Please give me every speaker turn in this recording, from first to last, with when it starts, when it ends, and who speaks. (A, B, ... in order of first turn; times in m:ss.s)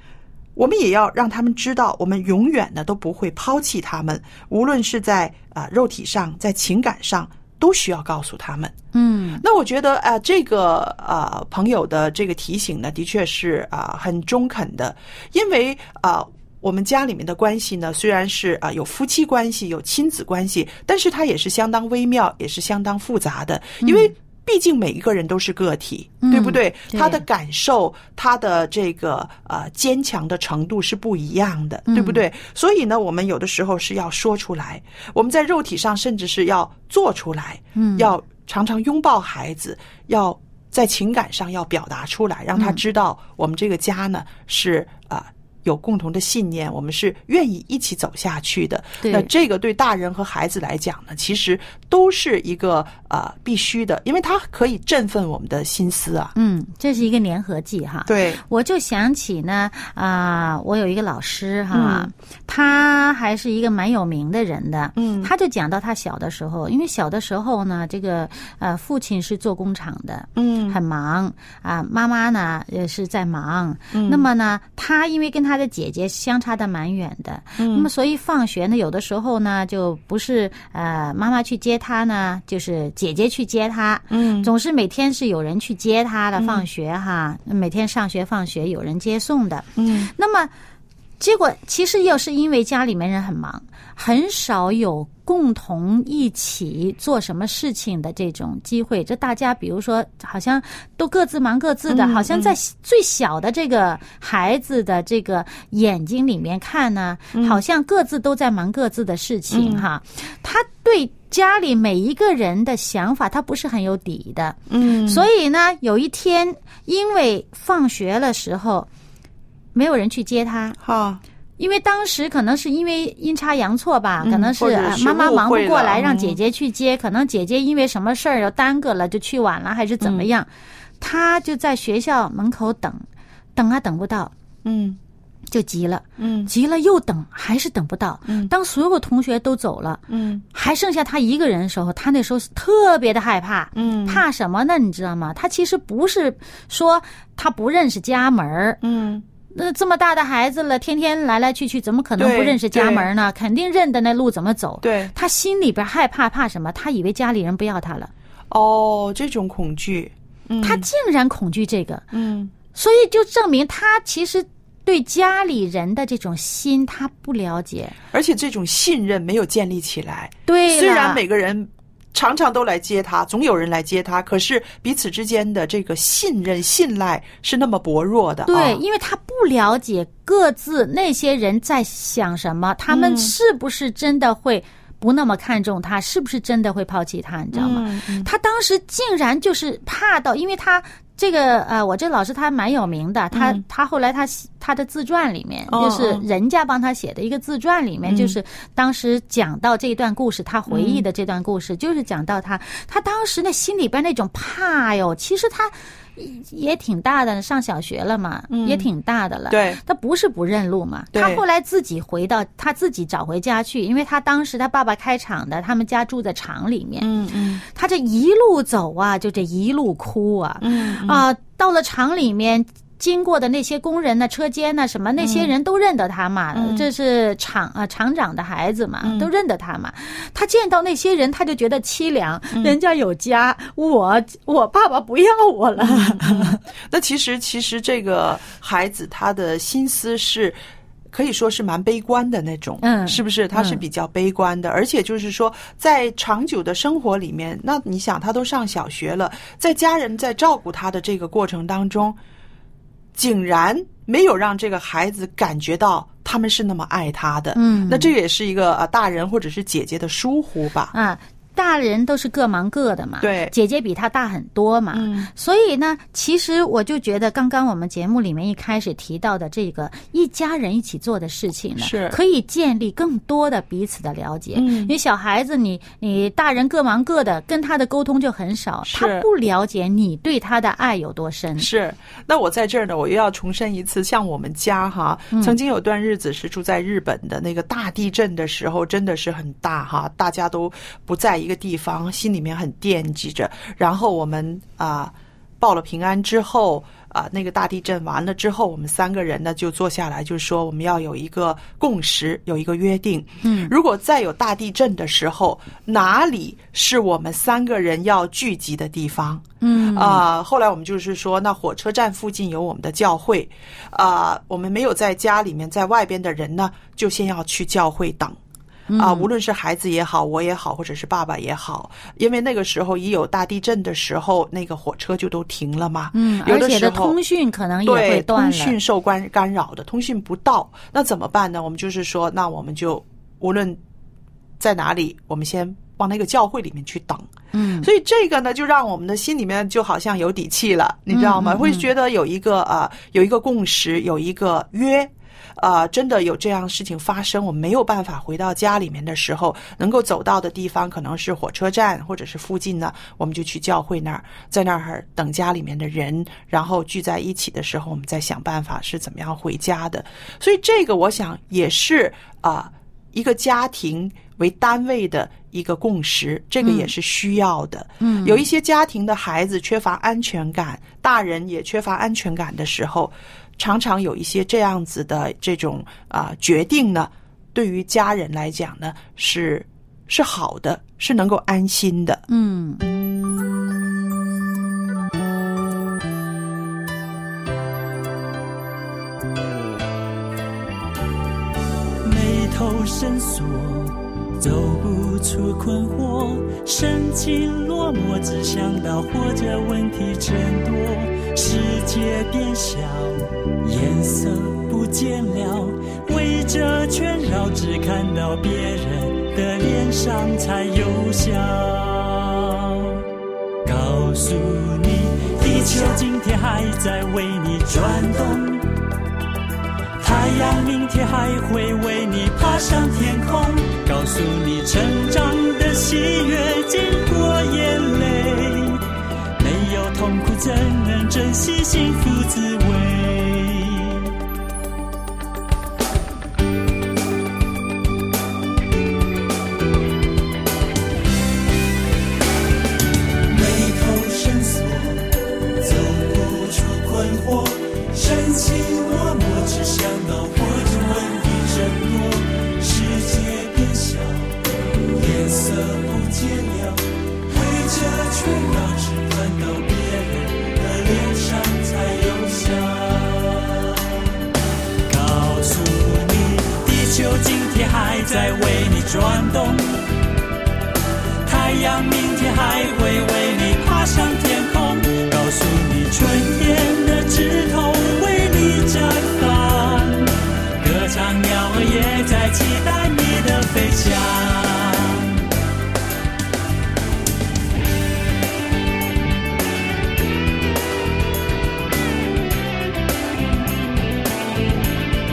0:00.6-0:08.7 A
0:08.9-0:09.4 B
0:09.4-0:56.3 A
0:23.8-0:24.1 B
0:26.2-0:27.2 B
0:31.9-0:32.2 B
0:37.8-0:38.1 B
0:42.5-0:42.8 B
0:49.0-0:49.3 B
0:56.3-1:30.5 B
0:58.0-0:58.4 A
1:01.7-1:02.1 A
1:05.0-1:05.3 A
1:10.4-1:10.8 A
1:13.9-1:14.3 A
1:17.6-1:17.9 A
1:24.1-1:24.5 A
1:26.4-1:26.7 A
1:29.8-1:30.1 A
1:31.2-1:58.9 B
1:41.9-1:42.6 A
1:47.3-1:47.6 A
1:49.5-1:49.8 A
1:54.7-1:55.3 A
1:59.7-2:00.8 B
2:00.8-2:01.2 A
2:01.6-2:10.5 B
2:04.2-2:06.4 A
2:10.0-2:10.3 A
2:11.0-2:13.0 B
2:13.6-2:14.3 B
2:14.6-2:15.0 A
2:15.5-2:28.8 B
2:16.2-2:16.5 A
2:18.2-2:18.5 A
2:20.1-2:20.4 A
2:23.7-2:24.2 A
2:28.8-2:29.2 A
2:29.5-2:38.1 B
2:32.2-2:33.1 A
2:34.8-2:35.1 A
2:38.5-2:40.9 A
2:40.6-2:42.1 B
2:42.1-2:42.5 A
2:42.7-2:48.0 B
2:48.1-2:58.8 A
2:50.5-2:51.2 B
2:58.5-3:37.1 B
3:02.9-3:03.4 A
3:07.5-3:08.3 A
3:13.3-3:13.6 A
3:15.7-3:16.2 A
3:18.0-3:18.4 A
3:20.7-3:21.0 A
3:28.5-3:28.9 A
3:29.5-3:29.8 A
3:31.1-3:31.4 A
3:37.0-3:37.6 A
3:37.7-3:56.6 B
3:40.6-3:41.2 A
3:45.2-3:45.5 A
3:46.5-3:46.9 A
3:49.0-3:49.3 A
3:52.5-3:52.8 A
3:55.8-4:00.6 A
4:01.1-4:12.2 A
4:02.8-4:03.8 B
4:13.1-4:20.9 A
4:17.5-4:18.1 B
4:20.9-4:41.7 B
4:23.2-4:23.5 A
4:24.9-4:25.3 A
4:31.8-4:32.2 A
4:34.5-4:34.9 A
4:38.8-4:39.3 A
4:41.6-5:18.4 A
5:03.4-5:03.7 B
5:09.6-5:10.2 B
5:18.9-5:19.3 B
5:19.0-5:27.2 A
5:26.1-5:28.8 B
5:27.8-5:33.8 A
5:34.6-5:37.3 A
5:37.5-5:37.9 B
5:37.8-6:22.2 A
5:41.1-5:41.9 B
6:06.6-6:06.9 B
6:08.0-6:08.4 B
6:22.3-6:22.8 B
6:32.0-6:53.0 C
6:53.6-6:58.7 C
7:00.0-7:08.8 C
7:09.4-7:14.2 C
7:23.2-7:44.1 C
7:44.8-7:49.8 C
7:51.2-8:05.2 C